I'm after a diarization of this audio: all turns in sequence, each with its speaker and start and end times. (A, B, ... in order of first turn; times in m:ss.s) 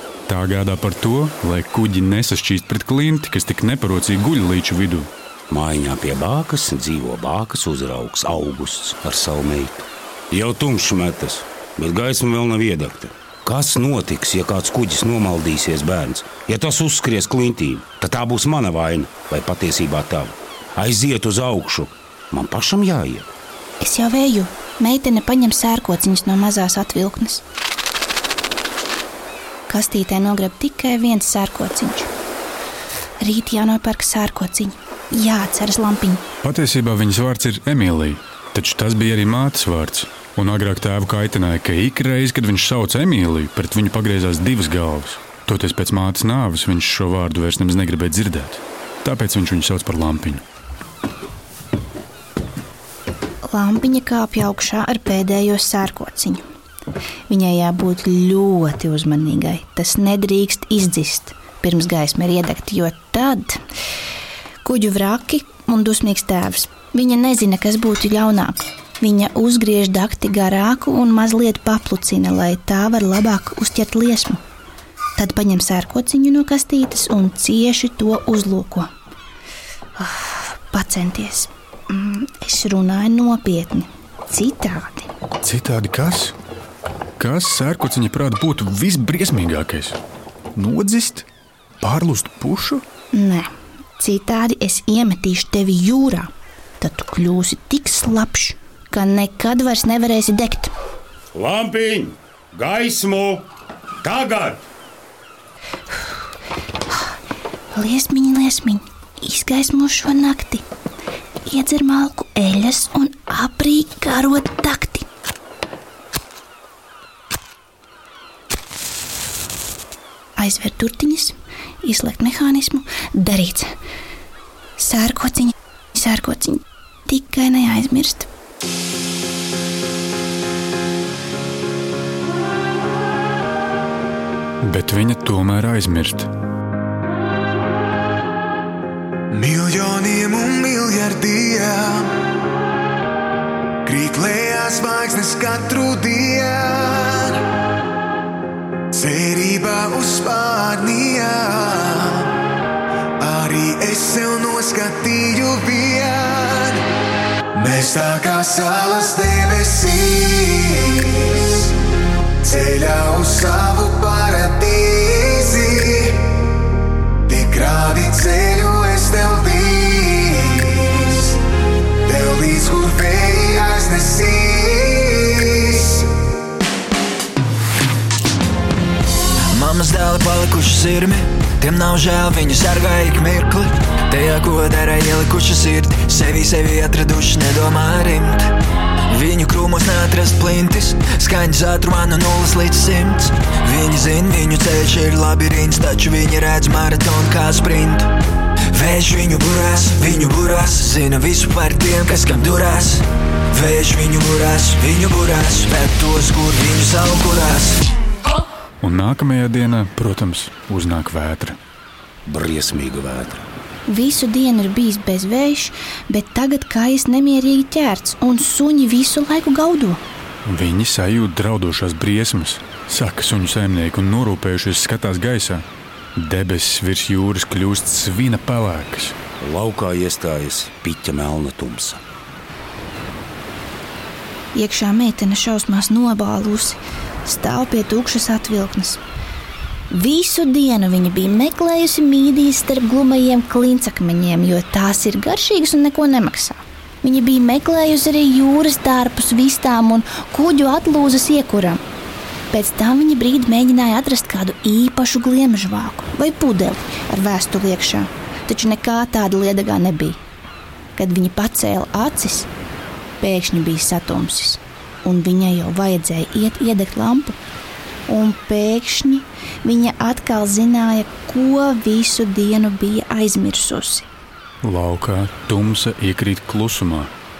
0:00.3-0:05.1 A
0:05.5-0:23.2 B
0:23.8-0:27.4 C
0:29.7-0:32.1 C
0:33.2-0:36.2 C
0:36.4-0:50.4 A
0:53.5-0:56.4 C
0:57.3-1:03.6 C
1:04.6-1:14.4 C
1:15.2-1:18.9 C
1:20.0-1:25.1 C
1:25.4-1:26.3 A
1:27.2-1:30.0 A
1:30.6-1:31.2 A
1:31.8-1:32.8 A
1:33.1-1:36.3 C
1:36.8-1:40.7 C
1:41.3-1:43.4 B
1:44.0-1:44.6 B
1:47.7-1:50.6 C
1:51.4-1:55.0 C
2:00.4-2:03.7 C
2:04.8-2:08.3 C
2:14.6-2:16.3 A
2:19.3-2:22.1 D
2:23.8-2:27.4 D
2:28.9-2:32.3 D
2:33.2-2:36.8 D
2:37.5-2:41.7 D
2:42.4-2:46.2 D
2:47.3-2:51.4 D
2:52.0-2:56.0 D
2:59.5-3:08.5 E
3:09.1-3:18.1 E
3:18.7-3:27.8 E
3:28.8-3:31.6 A
3:32.3-3:33.4 B
3:33.9-3:40.0 C
3:40.4-3:45.6 A
3:46.2-3:49.2 A
3:49.4-3:52.0 B
3:54.5-3:59.0 C
3:59.9-4:11.8 C
4:12.5-4:20.2 C
4:21.0-4:22.5 C
4:23.2-4:27.4 C
4:28.1-4:34.1 C
4:34.6-4:37.1 A